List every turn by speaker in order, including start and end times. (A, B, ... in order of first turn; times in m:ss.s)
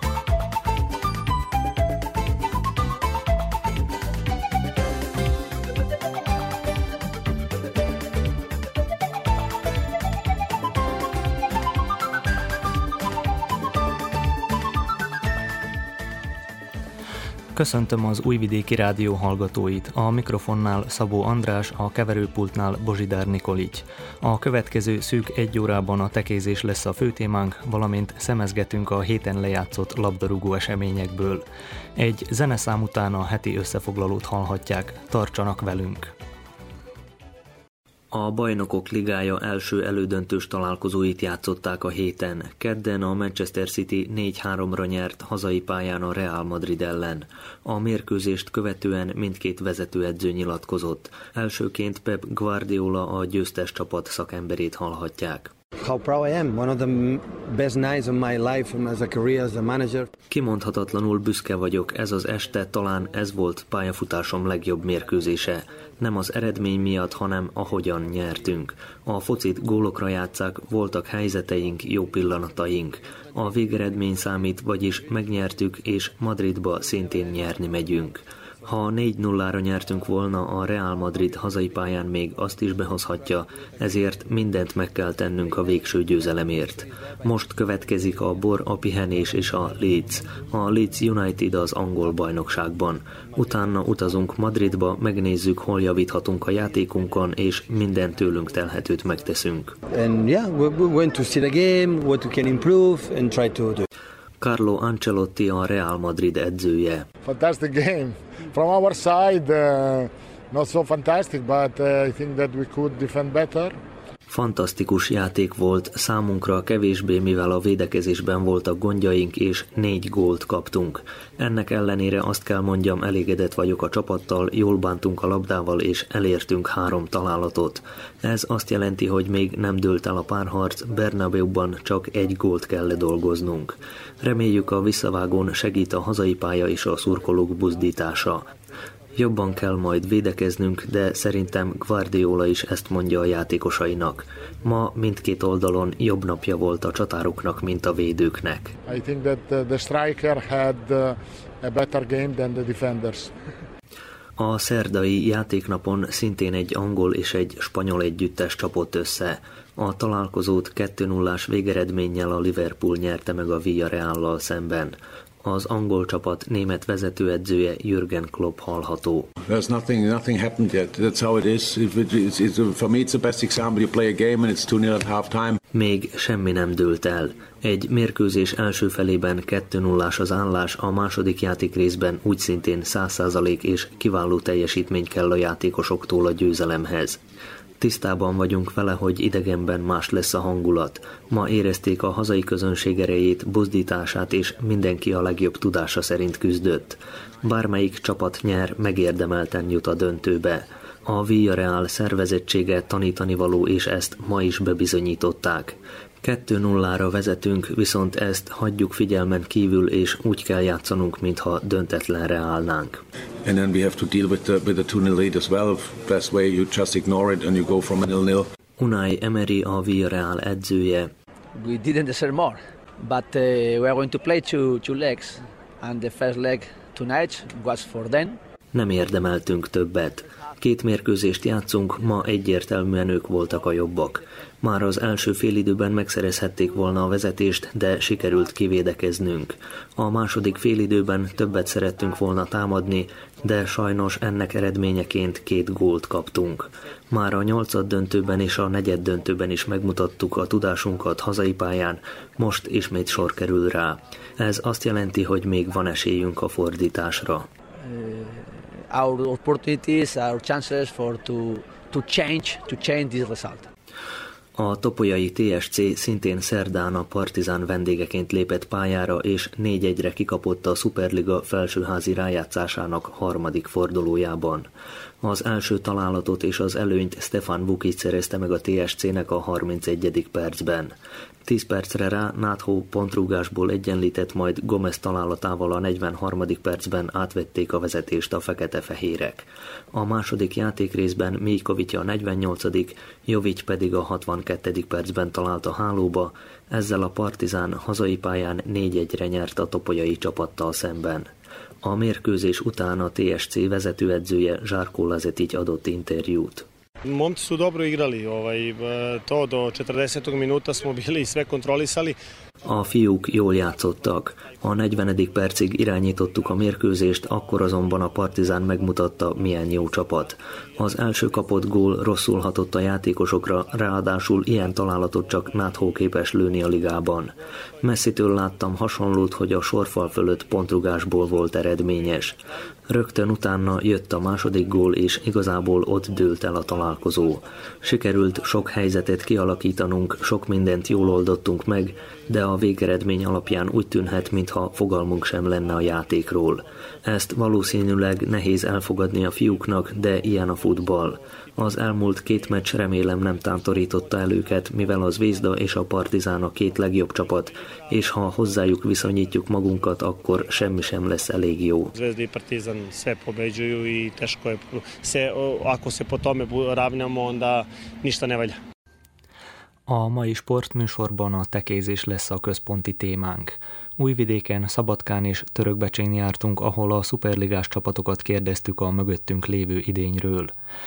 0:17.5-0:31.4 A
0:32.0-0:36.1 A
0:38.1-0:55.5 A
0:55.8-1:00.1 B
1:00.3-1:39.8 A
1:39.9-1:43.8 B
1:44.4-1:47.1 A
1:47.2-1:53.8 C
1:54.3-2:18.5 A
2:19.1-2:28.8 A
2:28.8-2:33.3 C
2:34.4-2:49.3 A
2:49.4-2:55.6 D
2:55.7-3:07.2 A
3:07.8-3:33.0 A
3:33.4-3:38.4 D
3:38.8-3:41.1 A
3:41.5-3:48.4 E
3:48.7-4:17.5 A
4:17.8-4:23.7 E
4:24.6-4:34.7 A
4:35.2-4:40.9 A
4:41.4-5:01.3 A
5:01.8-5:06.6 A
5:07.0-5:12.2 F
5:12.6-5:32.4 A
5:32.9-6:01.9 A
6:01.9-6:08.6 F
6:09.9-6:20.5 A